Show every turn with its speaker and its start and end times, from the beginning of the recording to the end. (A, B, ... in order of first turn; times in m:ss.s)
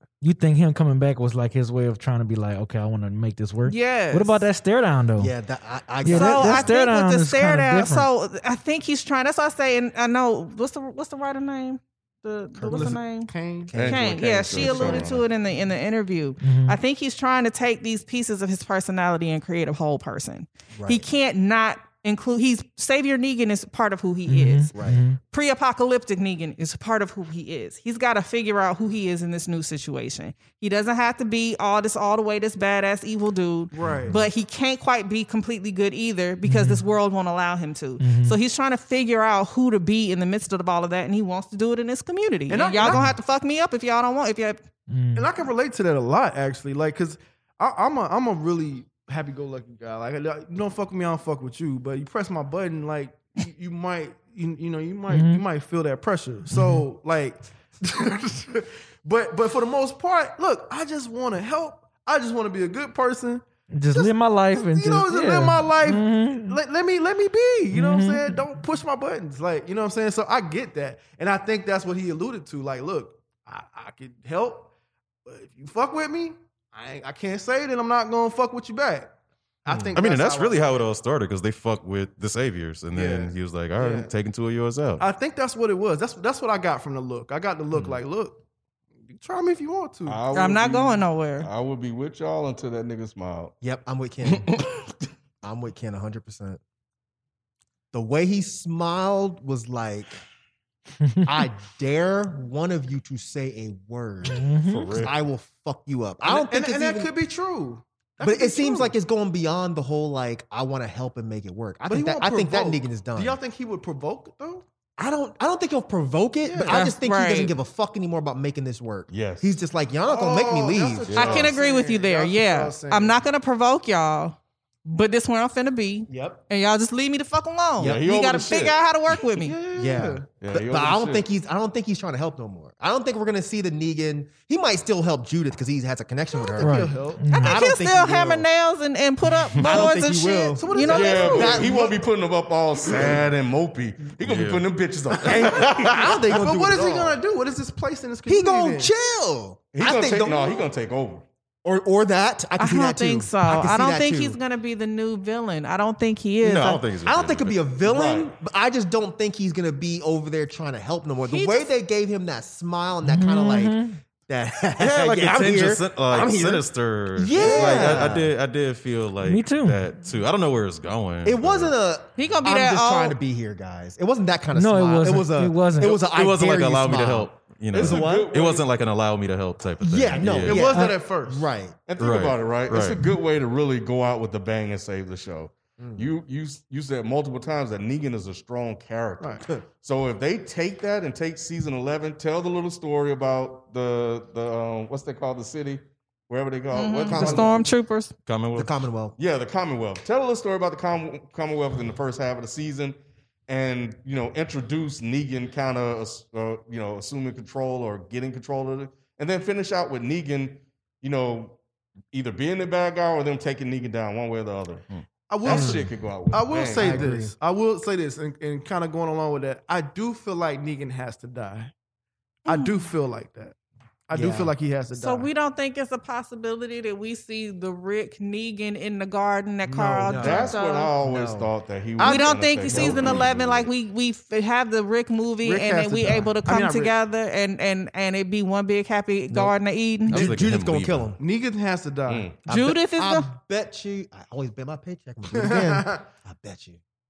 0:00.2-0:05.3 A
0:03.7-0:04.4 B
0:05.2-0:06.7 C
0:06.0-0:08.1 A
0:06.0-0:44.6 B
0:12.5-0:13.0 C
0:12.7-0:13.8 D
0:13.7-0:14.0 C
0:13.7-0:15.2 E
0:14.5-0:15.0 C
0:14.7-0:15.0 D
0:16.4-0:16.8 A
0:20.7-0:21.0 C
0:24.3-0:25.2 A
0:24.7-0:25.0 C
0:33.7-0:34.2 D
0:33.8-0:34.2 C
0:36.4-0:36.8 A
0:38.0-0:38.4 A
0:42.5-0:43.1 D
0:44.9-0:45.3 A
0:45.1-1:14.7 D
0:55.1-0:55.4 A
0:56.5-0:56.8 A
1:03.7-1:06.6 A
1:07.7-1:08.4 A
1:15.2-1:20.8 D
1:19.7-1:19.9 C
1:19.9-1:25.0 F
1:22.9-1:24.1 D
1:25.0-1:28.4 D
1:29.1-1:30.2 D
1:30.0-1:33.5 E
1:30.3-1:31.5 B
1:33.6-1:34.5 C
1:35.4-1:36.6 C
1:37.9-1:40.2 C
1:41.0-1:41.3 A
1:41.2-1:47.1 C
1:44.2-1:44.9 A
1:44.7-1:45.1 E
1:46.2-1:48.9 D
1:48.2-1:53.4 C
1:51.8-1:54.6 D
1:55.0-2:01.1 C
1:56.4-1:56.8 D
1:56.7-1:57.5 B
1:59.1-1:59.5 E
2:00.0-2:03.2 D
2:01.1-2:01.5 E
2:01.1-2:09.6 B
2:06.1-2:06.4 C
2:07.8-2:08.0 C
2:07.8-2:08.8 E
2:09.3-2:10.3 D
2:09.7-2:18.5 C
2:10.4-2:11.2 E
2:16.5-2:17.4 D
2:16.6-2:17.6 A
2:17.4-2:21.6 B
2:19.6-2:22.0 C
2:20.5-2:22.0 D
2:20.9-2:26.0 E
2:22.9-2:23.2 C
2:24.2-2:24.7 F
2:25.2-2:27.2 C
2:25.2-2:28.9 D
2:28.3-2:30.6 C
2:29.7-2:31.2 E
2:31.6-2:34.4 C
2:32.6-2:36.9 B
2:36.4-2:37.6 F
2:37.0-2:48.3 C
2:37.8-2:38.3 E
2:41.2-2:41.7 B
2:43.0-2:44.0 A
2:44.8-2:51.7 F
2:47.6-2:48.0 D
2:49.2-2:49.8 A
2:51.2-2:58.3 C
2:52.2-2:53.2 B
2:54.5-2:56.0 A
2:56.0-3:00.7 F
2:57.7-2:58.7 E
2:59.8-3:01.8 C
3:00.4-3:01.4 D
3:00.7-3:01.0 A
3:01.9-3:17.6 E
3:02.0-3:03.0 F
3:05.8-3:06.1 C
3:09.2-3:09.4 D
3:16.7-3:18.2 B
3:17.1-3:17.6 C
3:18.2-3:18.7 F
3:18.5-3:19.2 C
3:19.2-3:23.0 E
3:23.5-3:31.6 E
3:32.1-3:34.8 E
3:35.3-3:41.7 D
3:35.4-3:37.1 E
3:35.4-3:35.9 C
3:36.5-3:37.3 C
3:42.4-3:43.5 D
3:42.5-3:42.8 B
3:44.1-3:45.3 D
3:44.1-3:44.5 C
3:44.9-3:50.9 B
3:49.6-3:50.4 D
3:50.1-3:51.5 C
3:50.1-3:53.7 E
3:52.0-3:53.2 D
3:52.0-4:00.3 B
3:55.4-3:57.0 D
4:00.1-4:01.1 F
4:00.1-4:01.2 C
4:00.2-4:00.4 D
4:01.2-4:02.3 D
4:02.1-4:02.4 E
4:02.4-4:03.3 B
4:02.4-4:06.8 C
4:05.3-4:06.0 D